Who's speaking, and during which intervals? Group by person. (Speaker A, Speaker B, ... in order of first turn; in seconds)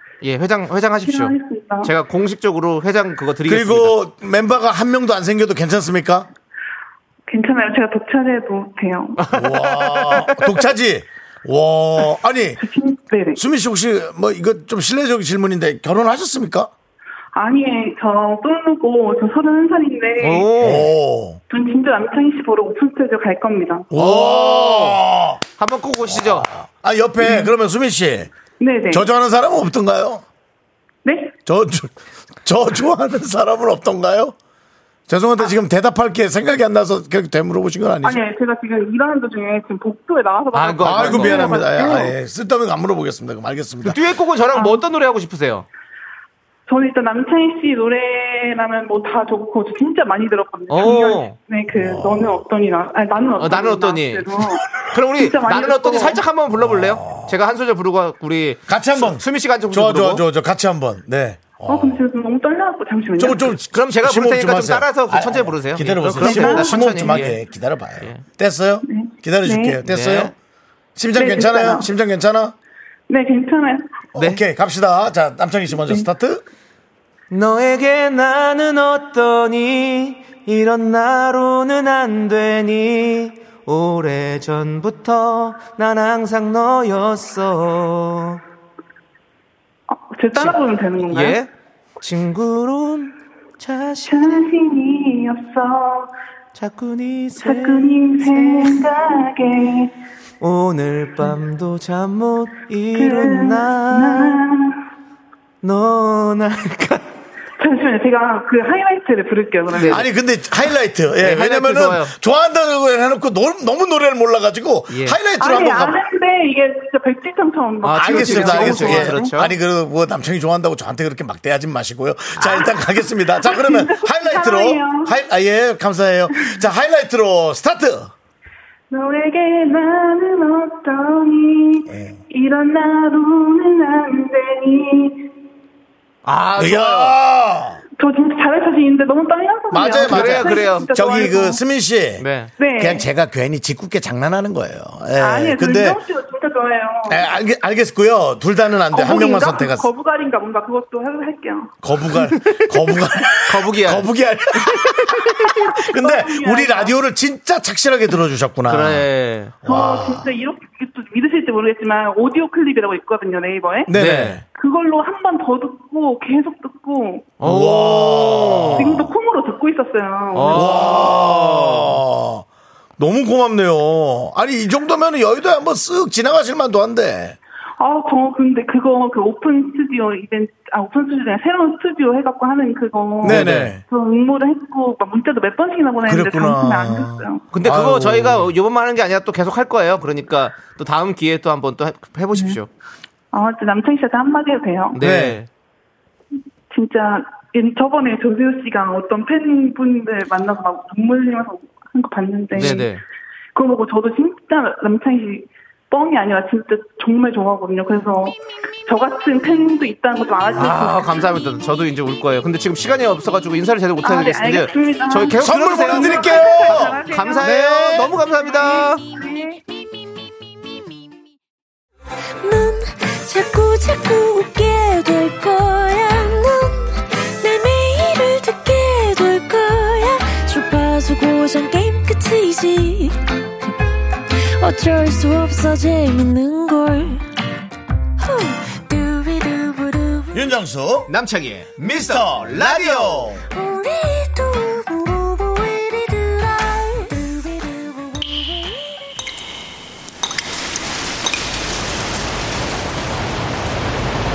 Speaker A: 0.2-4.0, 9.2-10.5, 20.2-20.9, 23.9-25.0, 25.6-26.5, 40.5-41.6, 43.8-45.7, 50.7-51.4, 53.4-54.3, 54.9-60.2, 63.7-67.4, 69.8-70.3, 74.2-74.4, 77.3-88.4, 90.3-94.5, 96.5-98.9, 100.4-104.4, 105.6-107.1, 109.7-110.0, 111.2-112.1, 114.9-115.2, 117.8-119.5, 136.2-137.2, 140.0-140.9, 142.2-142.5, 152.3-152.7, 153.5-154.1, 154.7-155.5, 158.7-159.6, 163.9-164.4, 167.4-168.9, 170.3-172.0, 183.2-183.8, 187.5-192.7, 194.9-195.5, 202.5-203.0, 210.6-219.1, 241.1-243.3
Speaker B: 1.0-1.9, 7.3-9.2, 12.6-13.4, 17.4-20.8, 21.5-23.9, 27.2-27.5, 28.6-29.1, 31.1-31.4, 38.0-42.1, 44.5-44.8, 46.7-56.2, 61.7-63.6, 66.2-67.2, 68.9-69.8, 71.2-71.9, 73.1-73.9, 89.9-91.4, 94.1-96.1, 97.4-99.9, 103.0-104.8, 107.6-110.1, 115.4-119.3, 122.4-125.2, 128.9-135.3, 138.0-141.6, 142.6-143.1, 145.2-147.3, 148.9-151.7, 155.4-156.9, 159.7-163.9, 164.5-167.3, 168.8-171.1, 177.8-187.4, 193.3-195.0, 196.7-202.9, 203.6-211.3, 214.0-219.6
Speaker C: 3.5-6.3, 9.3-12.6, 13.4-16.7, 20.6-21.4, 23.9-25.4, 26.1-28.3, 28.9-30.2, 31.5-34.4, 35.1-38.2, 40.8-44.0, 51.7-52.4, 56.6-57.3, 58.7-62.0, 63.2-70.3, 71.0-72.5, 74.1-76.4, 109.8-116.0, 118.0-128.1, 131.9-132.2, 136.6-137.8, 139.7-142.2, 142.8-146.0, 147.1-149.9, 151.8-159.1, 159.6-160.3, 163.9-164.4, 167.4-169.1, 170.5-172.4, 173.0-177.4, 183.2-183.8, 186.1-188.5, 195.0-195.4, 215.4-218.0, 240.3-241.1, 241.8-243.4
Speaker D: 222.4-233.2, 234.3-237.2, 238.2-240.5, 243.5-249.0